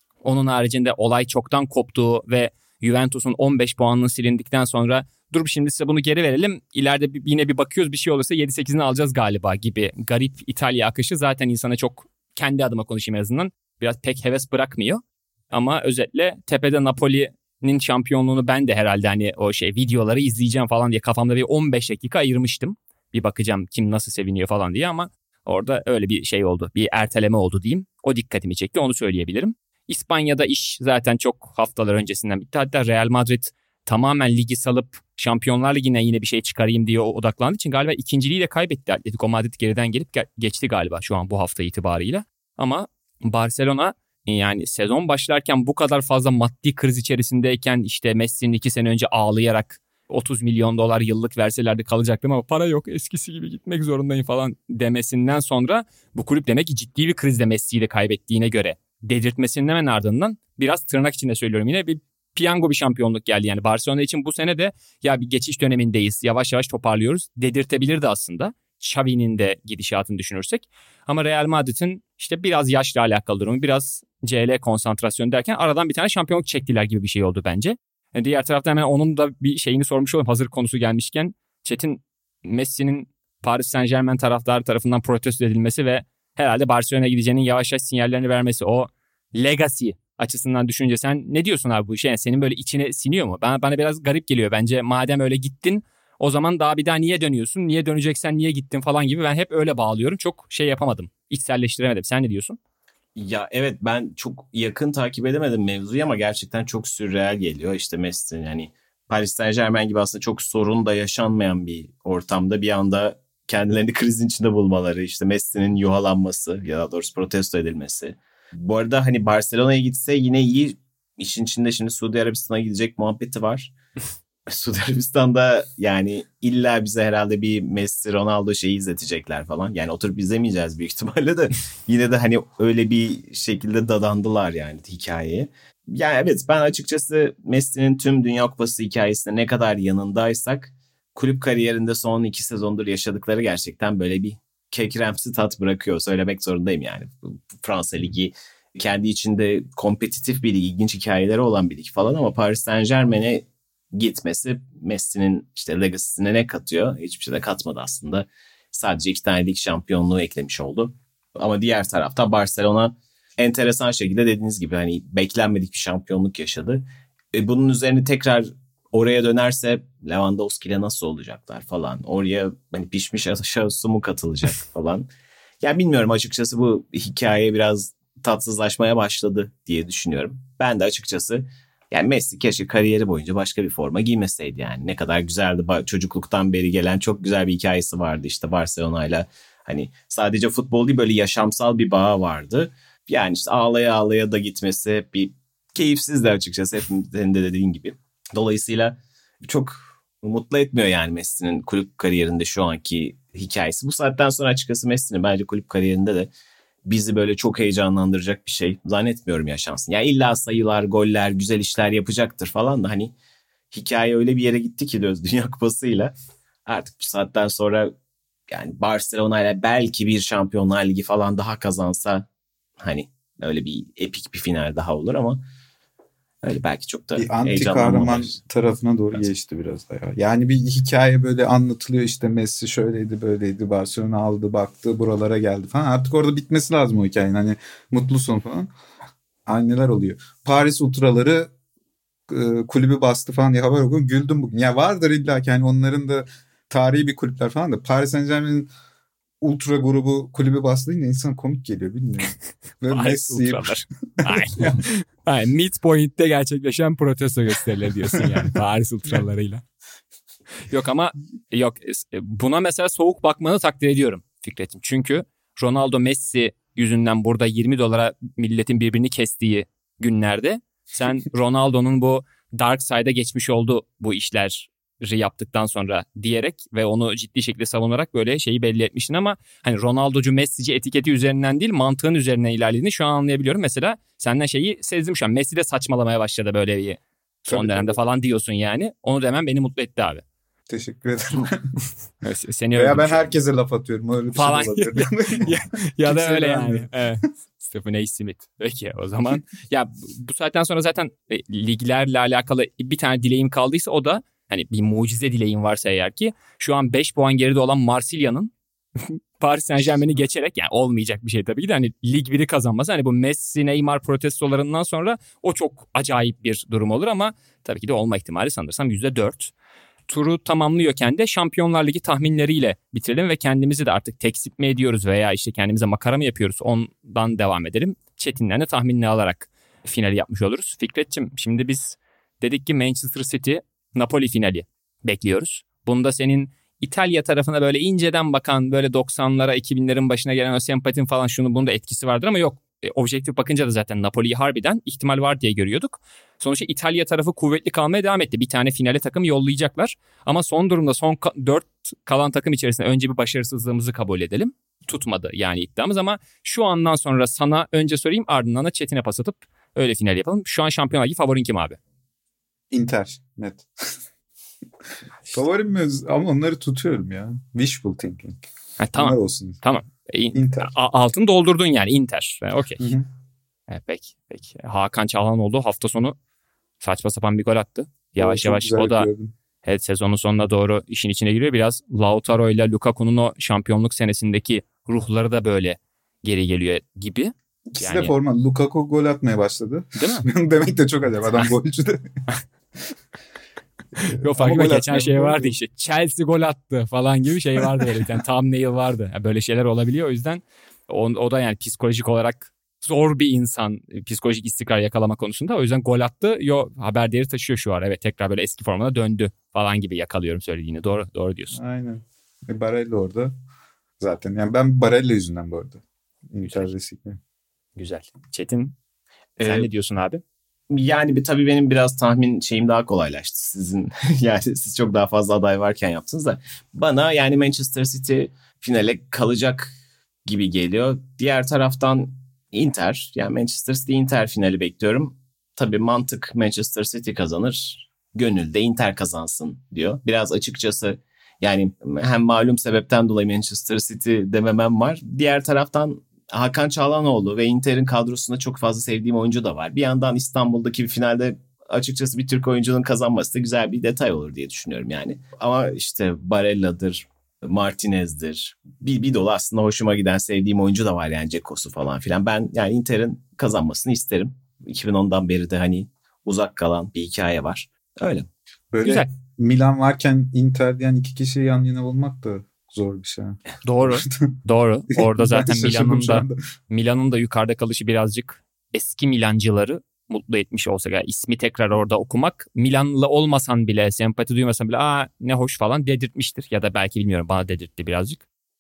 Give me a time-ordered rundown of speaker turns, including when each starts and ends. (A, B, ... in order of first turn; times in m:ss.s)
0:00.2-1:42.6 A
1:43.2-2:03.7 B
2:04.5-2:55.1 B
2:55.6-3:26.3 B
3:26.8-3:33.1 B
3:33.7-3:37.9 B
3:38.5-3:42.3 B
3:42.8-3:45.4 B
3:46.4-3:48.4 B
3:47.2-3:58.7 C
3:59.5-4:01.5 C
4:02.3-4:08.7 C
4:09.4-4:14.8 C
4:12.9-4:19.6 A
4:20.6-4:50.2 A
4:47.5-4:48.0 C
4:50.7-4:51.7 C
4:52.2-4:53.3 A
4:52.7-4:56.9 C
4:54.4-5:19.5 A
5:20.1-6:01.8 A
6:02.7-6:03.7 C
6:05.3-6:08.4 C
6:08.8-6:12.8 A
6:09.0-6:09.6 C
6:10.3-6:10.7 C
6:12.8-6:13.0 C
6:13.7-6:16.2 A
6:16.8-6:19.1 A
6:18.2-6:19.3 C
6:19.6-6:28.1 A
6:27.7-6:32.1 C
6:30.0-6:30.3 A
6:34.0-6:51.6 A
6:34.0-6:35.6 C
6:51.5-6:53.3 C
6:54.0-6:57.2 C
6:56.4-6:56.7 A
6:57.8-6:58.8 A
6:59.4-6:59.7 B
6:59.4-7:00.2 A
7:00.7-7:09.7 B
7:10.2-7:48.3 B
7:48.7-7:54.4 C
7:48.8-7:49.1 A
7:53.6-8:08.2 A
7:55.0-7:56.4 C